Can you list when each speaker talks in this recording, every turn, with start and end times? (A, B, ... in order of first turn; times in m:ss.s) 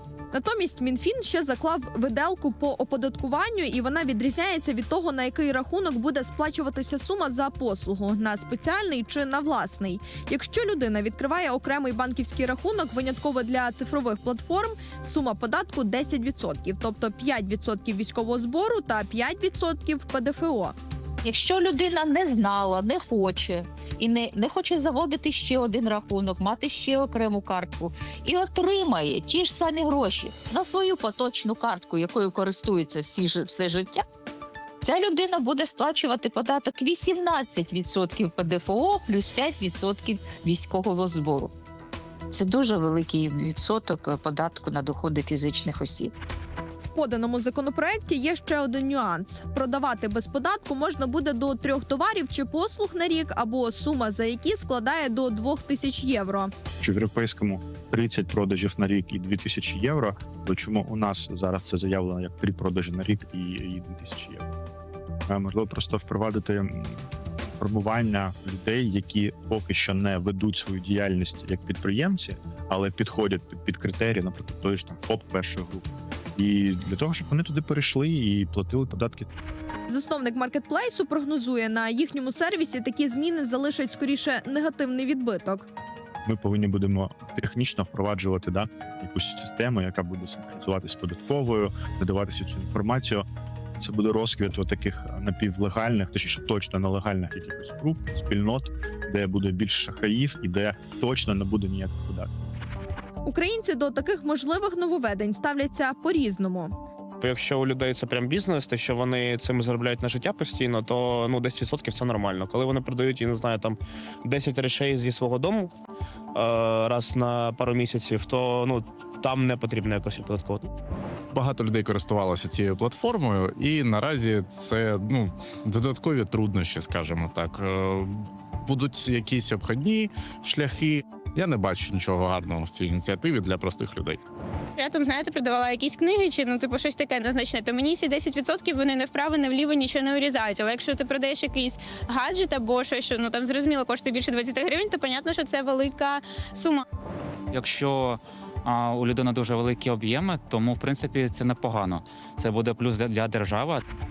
0:00.3-0:20.8 A
0:21.2-0:33.9 B
0:34.9-0:41.5 B
0:42.3-0:46.1 B
0:46.8-0:56.5 A
0:56.8-1:04.5 C
1:05.3-1:19.3 C
1:19.9-1:25.7 A
1:26.3-1:33.2 C
1:33.8-1:42.5 C
1:43.2-1:46.8 A
1:47.2-1:55.7 D
1:56.4-2:00.7 D
2:01.3-2:14.2 E
2:14.8-2:26.8 F
2:27.5-2:33.8 G